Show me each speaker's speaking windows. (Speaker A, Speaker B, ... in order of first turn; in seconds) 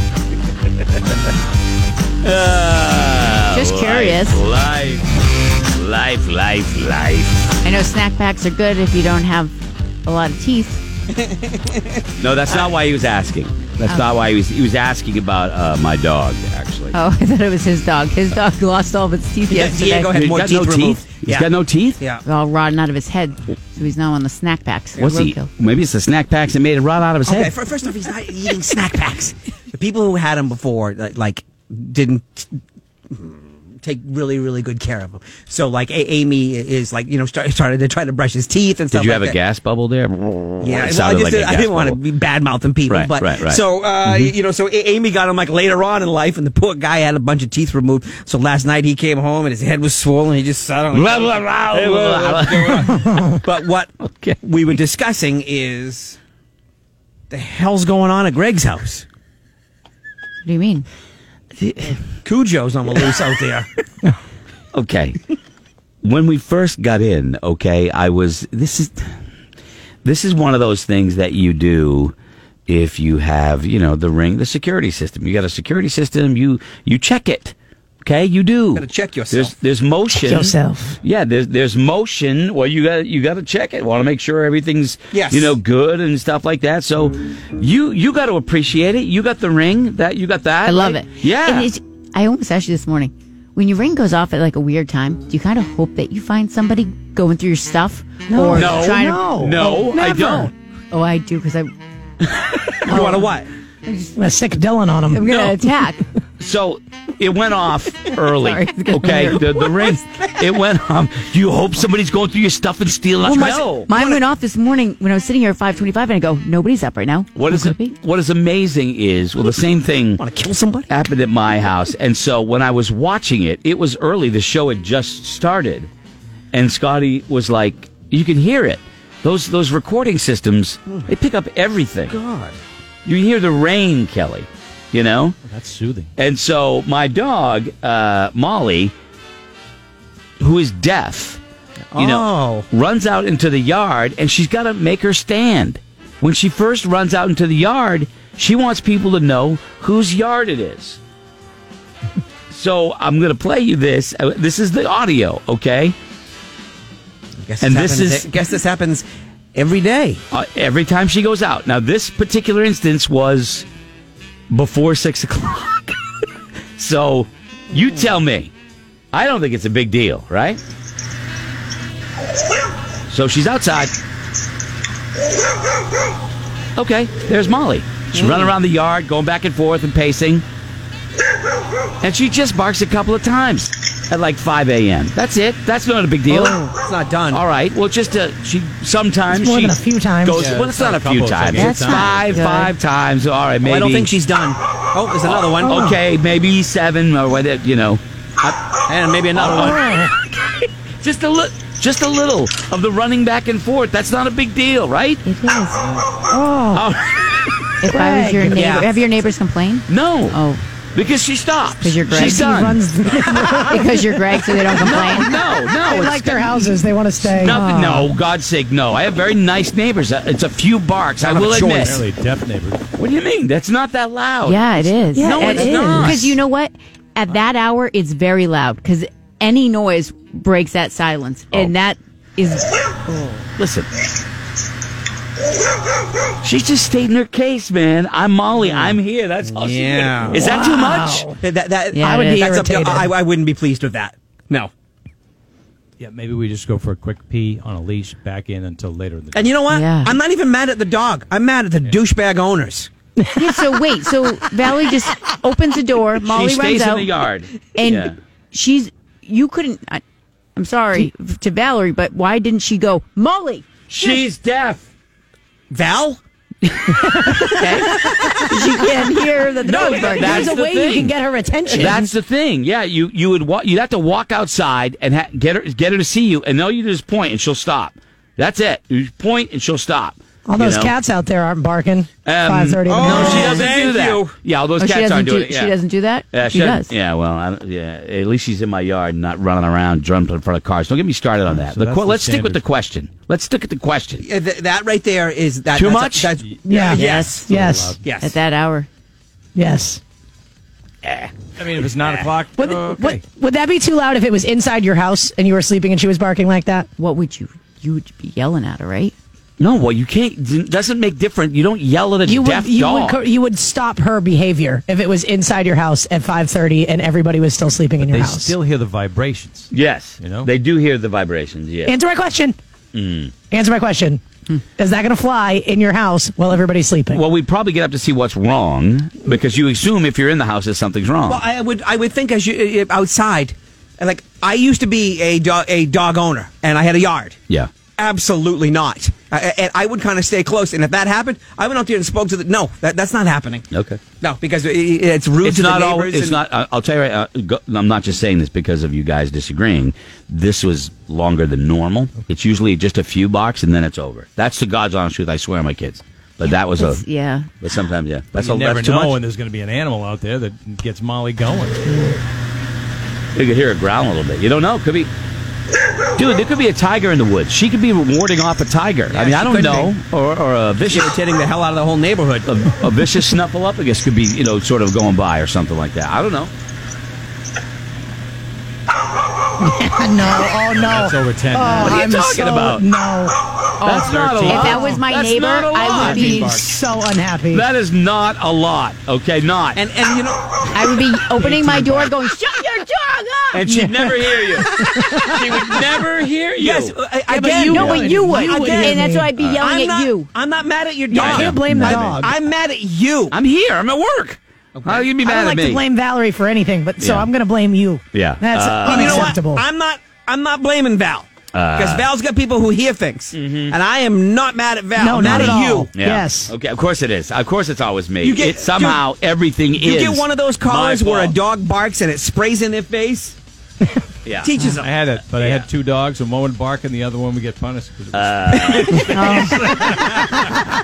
Speaker A: 2.2-5.1, 5.7-7.4, 12.2-17.0, 20.1-22.0, 25.0-27.5, 38.9-42.0, 42.9-44.3, 50.9-53.2, 54.0-54.4, 61.6-62.0, 64.7-65.2, 66.0-69.0, 70.0-72.1, 72.7-91.7, 98.5-100.5, 102.4-102.7, 105.2-105.5, 106.4-113.9, 117.3-120.2, 120.9-125.9, 126.5-132.2, 133.0-135.3, 136.2-138.9, 140.4-141.4, 141.9-151.0, 152.5-155.9, 157.6-158.3, 160.3-163.7, 164.5-165.9, 166.8-168.5, 169.1-170.6, 173.1-173.9, 176.8-180.4, 182.0-186.6, 187.3-194.1, 195.2-198.6, 199.3-200.1, 201.0-205.2, 206.7-207.6, 209.9-210.4, 210.9-212.8, 214.8-222.0, 223.0-226.4, 233.6-233.9, 236.4-241.3, 256.3-258.1, 263.9-264.8, 269.6-271.1, 271.7-280.9, 282.2-285.7, 286.3-294.2, 295.7-296.3, 309.6-313.2, 319.7-321.9, 322.9-323.3, 327.1-331.4, 343.7-344.0, 345.4-357.1, 357.6-359.2, 363.3-365.1, 366.2-371.2, 372.4-376.5, 381.8-382.8, 383.8-386.2, 387.5-389.8, 393.5-396.9, 399.4-399.6, 401.1-402.2, 403.3-405.8, 407.0-407.3, 408.1-409.3, 411.5-412.1, 413.3-413.8, 415.2-421.4, 424.2-424.5, 425.3-425.7, 428.1-429.1
Speaker B: 3.5-4.4, 7.6-10.8, 13.8-14.1, 16.9-20.2, 22.2-25.5, 60.4-60.9, 90.6-101.7, 105.1-106.0, 108.4-109.4, 113.3-117.9, 192.3-192.7, 205.2-205.8, 207.8-210.6, 211.8-212.8, 213.4-215.3, 217.4-218.1, 224.4-232.7, 241.9-242.5, 249.7-250.1, 253.3-257.1, 257.7-260.0, 260.6-263.6, 267.5-270.5, 284.8-286.9, 296.7-297.5, 298.2-298.9, 307.0-309.1, 356.5-357.5, 361.9-362.1, 383.8-386.5, 390.7-393.6, 397.6-400.3, 429.1-429.5
Speaker C: 11.2-12.0, 19.5-22.2, 27.2-32.6, 33.1-39.4, 40.6-52.9, 53.4-56.2, 57.3-59.0, 62.2-63.7, 78.7-79.5, 85.1-85.6, 102.8-103.5, 113.2-114.2, 120.2-120.9, 132.1-132.6, 141.9-142.7, 157.4-160.2, 178.2-178.5, 186.8-187.4, 193.6-195.8, 198.9-199.8, 208.5-208.9, 221.2-222.0, 239.4-240.4, 241.4-244.7, 249.3-252.9, 265.7-266.2, 282.9-284.3, 294.2-297.5, 298.0-298.3, 331.3-337.4, 338.0-343.6, 344.2-346.4, 369.1-369.9, 370.9-372.5, 389.8-390.9, 396.6-399.0, 399.6-403.3, 404.8-405.1, 408.8-415.9, 418.2-419.1, 419.8-423.4, 424.4-424.9
Speaker D: 80.2-81.0, 98.3-100.4, 104.0-105.2, 186.3-186.7, 189.3-190.5, 191.6-192.1, 195.6-196.0, 199.6-200.1, 206.3-206.8, 207.9-208.6, 212.1-214.0, 215.2-217.6, 225.2-226.1, 240.3-241.4, 242.0-243.1, 268.3-268.9, 269.6-272.1, 280.5-283.6, 296.7-298.0, 299.6-300.0, 302.6-306.9, 312.2-318.5, 321.8-322.6, 323.5-324.2, 324.8-327.2, 379.6-383.3, 384.7-385.0, 386.1-387.7, 393.6-395.9, 397.3-399.3, 401.1-402.3, 405.2-409.6, 415.0-416.5, 429.2-430.1
Speaker E: 135.4-136.1, 190.3-192.5, 221.8-222.8, 225.4-225.9, 246.0-249.6, 291.6-292.6, 296.4-298.0, 301.6-303.2, 318.0-320.5, 358.3-361.8, 380.6-382.1, 383.9-384.7, 385.8-386.8, 424.6-430.3